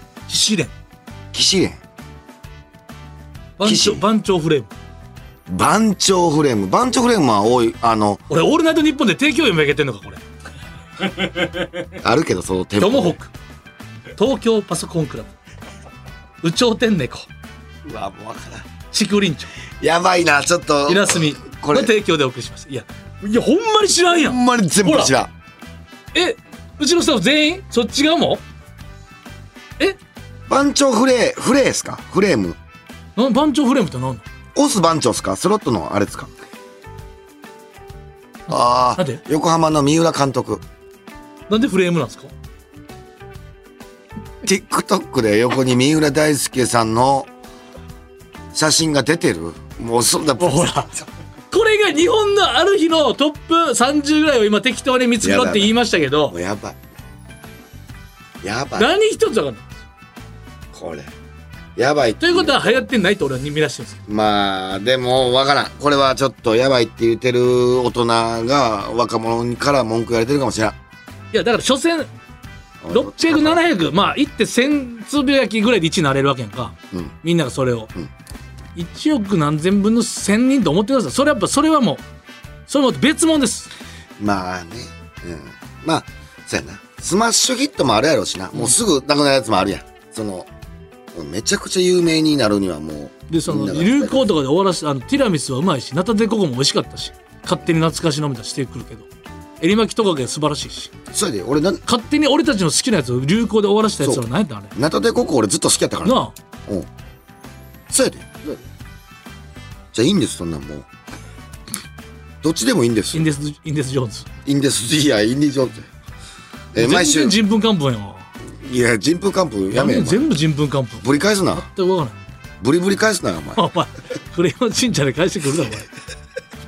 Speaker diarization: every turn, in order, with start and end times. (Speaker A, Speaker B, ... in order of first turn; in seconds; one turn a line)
Speaker A: 0.3-0.7
Speaker B: 1.3-1.8
Speaker A: 3.6-4.7
Speaker B: 3.6-4.0
Speaker B: 5.5-8.2
Speaker A: 8.3-10.2
Speaker B: 12.0-13.2
Speaker A: 12.8-13.3
Speaker A: 14.2-15.3
Speaker A: 16.4-17.3
Speaker B: 17.8-18.7
Speaker A: 18.9-19.5
Speaker B: 19.8-21.9
Speaker A: 20.9-25.1
Speaker B: 24.1-25.3
Speaker A: 26.1-28.4
Speaker B: 30.5-32.6
Speaker A: 33.2-34.2
Speaker B: 34.5-36.3
Speaker B: 38.5-40.6
Speaker A: 38.5-39.2
Speaker A: 41.5-42.3
Speaker B: 44.4-47.3
Speaker B: 48.5-50.7
Speaker A: 50.4-56.4
Speaker B: 55.2-55.8
Speaker B: 56.3-56.8
Speaker B: 58.4-58.9
Speaker A: 58.8-59.7
Speaker B: 60.7-61.1
Speaker B: 61.8-62.9
Speaker A: 62.2-64.0
Speaker B: 64.1-70.8
Speaker A: 71.3-72.1
Speaker B: 72.8-73.6
Speaker A: 72.9-77.9
Speaker A: 78.8-82.0
Speaker A: 82.7-83.7
Speaker B: 84.2-90.5
Speaker B: 91.1-94.3
Speaker A: 93.3-99.1
Speaker A: 99.6-100.9
Speaker B: 101.1-101.8
Speaker A: 101.9-104.7
Speaker B: 104.0-106.9
Speaker A: 106.0-106.3
Speaker B: 107.9-108.6
Speaker B: 109.9-110.9
Speaker B: 112.4-113.3
Speaker A: 113.1-114.3
Speaker B: 114.5-115.9
Speaker B: 116.7-117.4
Speaker A: 116.8-118.3
Speaker B: 118.5-120.3
Speaker A: 119.7-122.2
Speaker B: 121.0-121.7
Speaker B: 122.6-123.7
Speaker A: 123.6-125.9